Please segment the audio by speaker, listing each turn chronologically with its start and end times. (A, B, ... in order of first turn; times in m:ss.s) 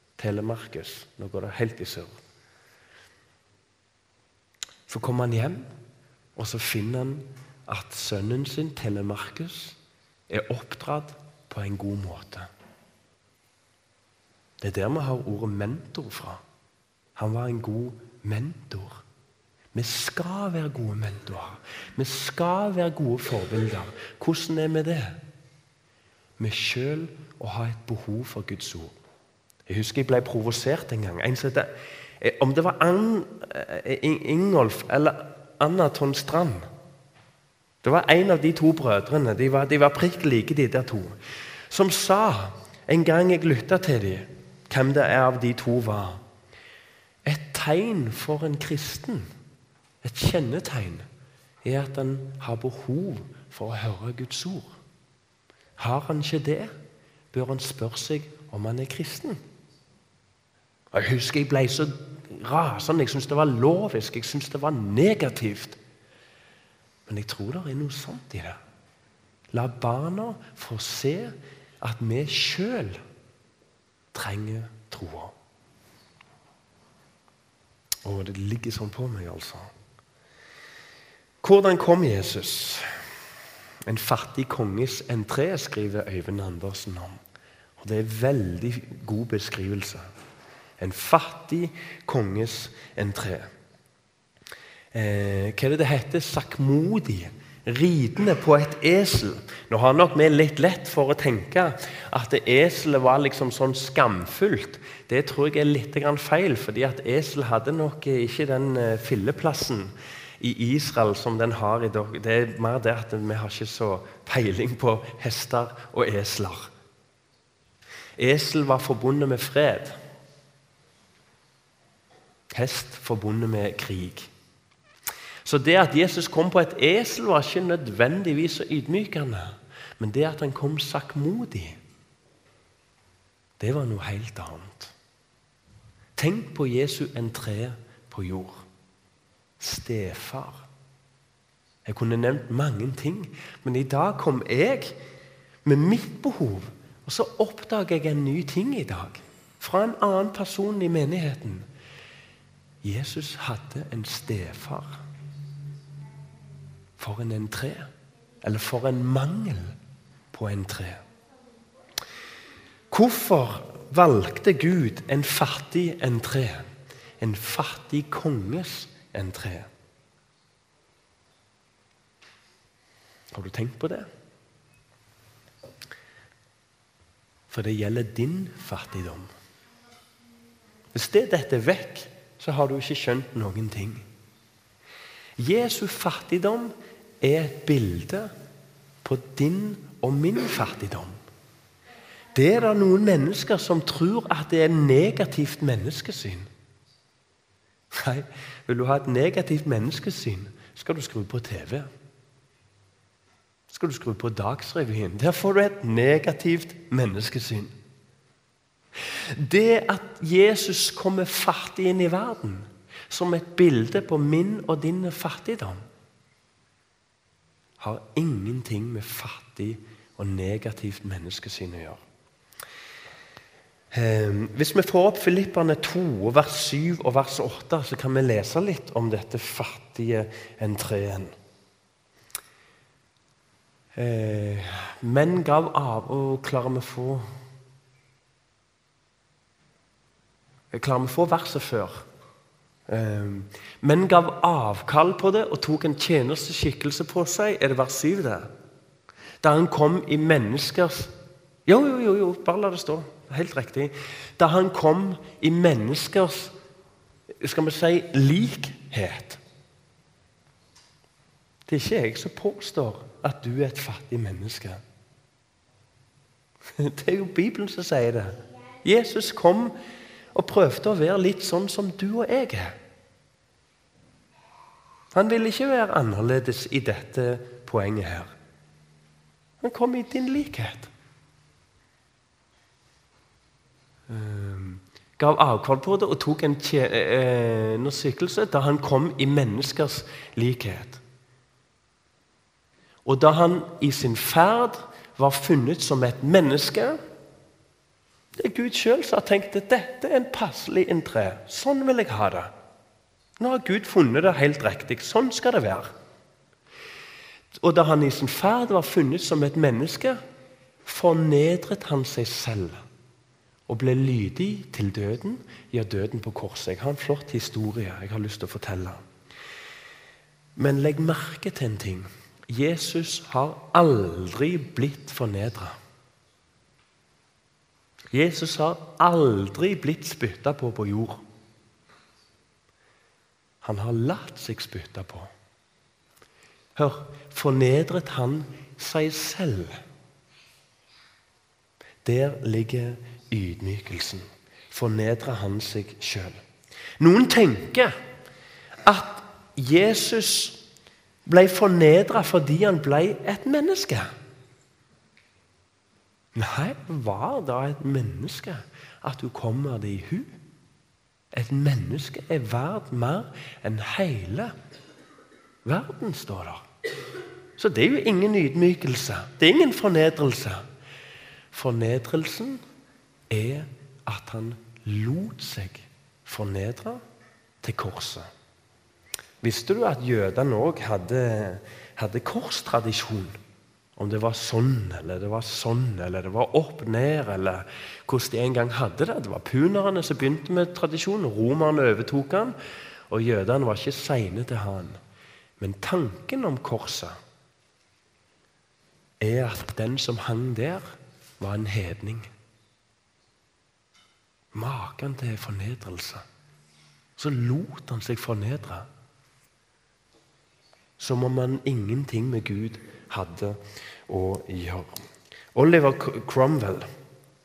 0:00.2-0:02.1 A
0:04.9-0:05.7 A
0:06.4-0:09.8 A
0:10.3-0:12.5 A
0:14.6-0:16.4 A
0:17.2-0:19.0 A
0:19.7-0:25.2 A
0:26.4-0:29.0 A
0:29.7-0:36.7 A
0:37.8-0:41.2 A
0:41.7-0:46.2 A
0:47.2-0:49.3 A
0:50.0-0:51.0 A
0:51.6-0:54.8 A
0:55.8-0:56.7 A
0:57.3-0:59.4 A
1:00.9-1:05.8 A
1:07.1-1:08.6 A
1:09.5-1:13.0 A
1:14.1-1:15.3 A
1:18.0-1:19.7 A
1:21.4-1:22.9 A
1:23.8-1:27.2 A
1:27.8-1:30.0 A
1:30.8-1:33.5 A
1:34.9-1:56.7 A
1:58.2-2:00.0 A
2:02.5-2:04.3 A
2:05.4-2:11.8 A
2:13.6-2:14.9 A
2:16.2-2:18.6 A
2:19.6-2:20.7 A
2:21.8-2:25.0 A
2:25.6-2:31.7 A
2:32.8-2:35.0 A
2:37.0-2:39.8 A
2:40.3-2:41.0 A
2:42.9-2:49.7 A
2:53.3-2:54.1 A
2:57.5-2:59.3 A
3:00.9-3:04.0 A
3:05.4-3:08.3 A
3:09.0-3:11.2 A
3:12.3-3:16.5 A
3:17.9-3:21.9 A
3:23.7-3:27.7 A
3:29.1-3:35.8 A
3:37.8-3:42.0 A
3:43.9-3:51.3 A
3:53.9-3:57.2 A
4:00.7-4:02.1 A
4:02.9-4:08.5 A
4:09.4-4:11.1 A
4:11.6-4:16.5 A
4:17.4-4:19.4 A
4:21.7-4:24.8 A
4:26.8-4:29.7 A
4:30.3-4:32.8 A
4:35.1-4:38.3 A
4:39.6-4:40.9 A
4:44.1-4:51.0 A
4:53.0-4:57.0 A
4:58.4-5:02.5 A
5:03.4-5:05.9 A
5:07.6-5:10.2 A
5:10.8-5:12.8 A
5:13.7-5:19.0 A
5:20.6-5:25.8 A
5:28.1-5:31.2 A
5:33.6-5:35.3 A
5:36.8-5:39.8 A
5:42.0-5:46.4 A
5:47.0-5:47.9 A
5:48.8-5:50.6 A
5:51.2-5:54.1 A
5:56.3-6:00.4 A
6:01.3-6:04.5 A
6:05.6-6:06.6 A
6:07.6-6:10.6 A
6:11.5-6:12.6 A
6:13.3-6:17.0 A
6:17.6-6:18.3 A
6:19.4-6:23.4 A
6:24.0-6:32.6 A
6:33.1-6:35.0 A
6:35.6-6:37.2 A
6:39.2-6:42.3 A
6:44.5-6:46.2 A
6:47.2-6:48.9 A
6:51.0-6:55.0 A
6:55.5-6:56.9 A